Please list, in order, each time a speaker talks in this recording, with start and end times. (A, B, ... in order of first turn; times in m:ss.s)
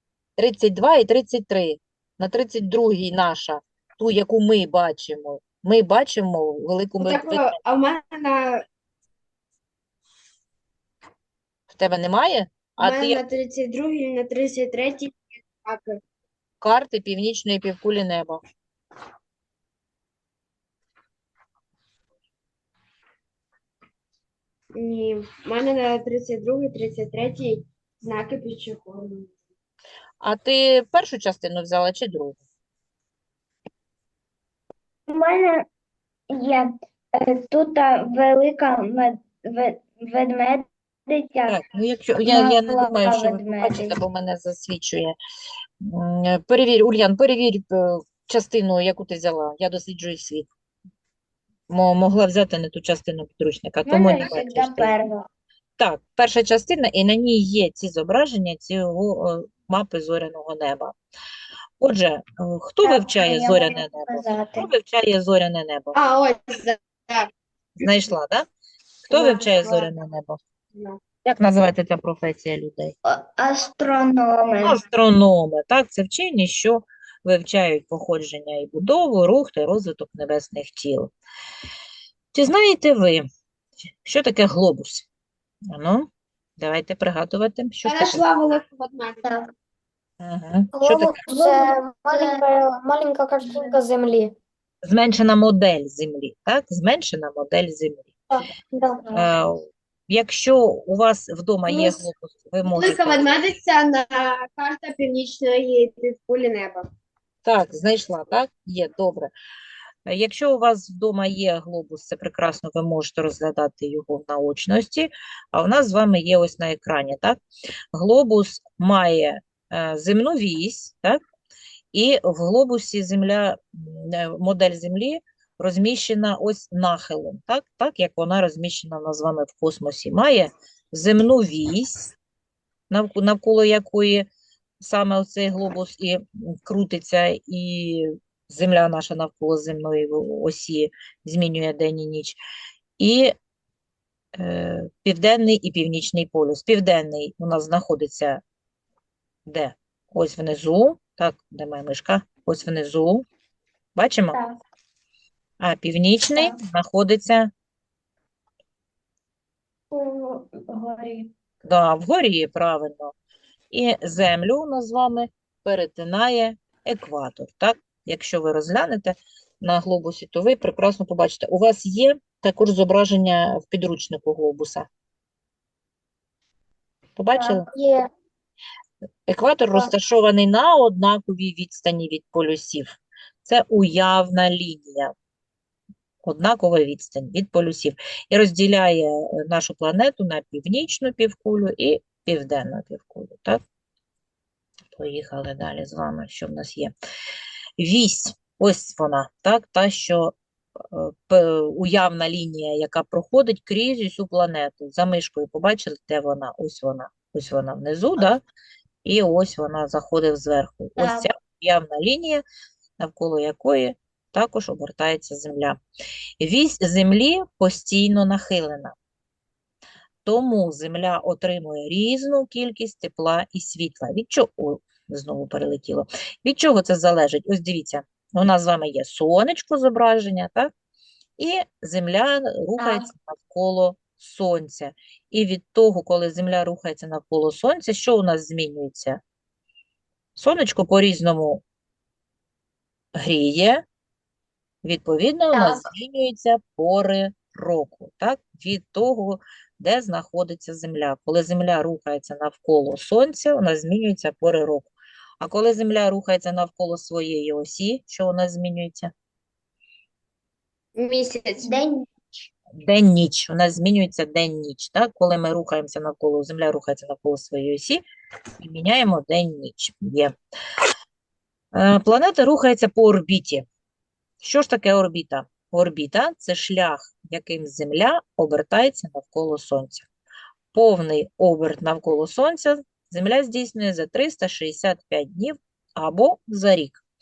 0:00.4-0:07.6 A
0:07.0-0:08.6 B
0:11.7-0:13.2 A
0:12.8-0:16.0 B
0:16.6-0:18.4 A
0:24.8-0:29.3 B
0:30.2-0:32.4 A
0:35.1-0:35.6 C
0:36.3-0:41.6 C
0:41.5-0:45.2 A
0:42.2-0:44.0 C
0:45.8-0:50.5 A
0:51.7-0:54.9 A
0:53.8-0:55.3 C
0:55.8-1:00.9 A
1:01.8-1:06.0 A
1:02.8-1:04.7 C
1:05.9-1:07.3 B
1:07.8-1:08.5 A
1:09.1-1:09.9 B
1:09.1-1:10.4 A
1:10.7-1:11.0 B
1:11.2-1:12.9 A
1:13.0-1:14.8 C
1:14.6-1:21.1 A
1:22.3-1:23.2 A
1:24.0-1:25.0 A
1:25.7-1:28.2 A
1:27.8-1:29.3 B
1:29.2-1:29.5 C
1:30.2-1:31.2 A
1:30.7-1:34.3 D
1:31.3-1:32.4 C
1:33.5-1:33.7 C
1:34.8-1:38.1 A
1:38.3-1:39.0 D
1:39.1-1:43.5 A
1:42.6-1:46.8 B
1:47.4-1:49.3 A
1:50.0-1:57.4 A
1:57.9-2:01.2 A
2:01.9-2:12.1 A
2:12.9-2:14.3 A
2:14.8-2:22.4 A
2:23.0-2:23.3 A
2:24.4-2:28.4 A
2:29.4-2:33.2 A
2:33.9-2:34.4 A
2:34.3-2:34.6 C
2:35.6-2:37.5 A
2:39.9-2:41.3 C
2:41.6-2:43.1 A
2:43.7-2:54.9 A
2:57.2-2:57.6 A
2:57.4-2:58.1 D
2:59.3-3:02.9 A
3:03.4-3:05.1 A
3:06.2-3:13.6 A
3:14.9-3:16.9 A
3:17.8-3:20.3 A
3:20.9-3:28.4 A
3:29.0-3:32.4 A
3:31.0-3:31.3 C
3:33.0-3:35.8 A
3:36.4-3:38.9 A
3:40.2-3:50.7 A
3:51.4-3:59.2 A
3:52.8-3:53.1 C
4:00.4-4:01.6 A
4:03.2-4:03.8 A
4:04.8-4:19.1 A
4:05.5-4:05.8 C
4:21.0-4:21.7 B
4:21.6-4:22.1 C
4:22.8-4:28.0 A
4:28.6-4:30.3 A
4:31.7-4:33.6 A
4:34.4-4:40.1 A
4:40.7-4:47.0 A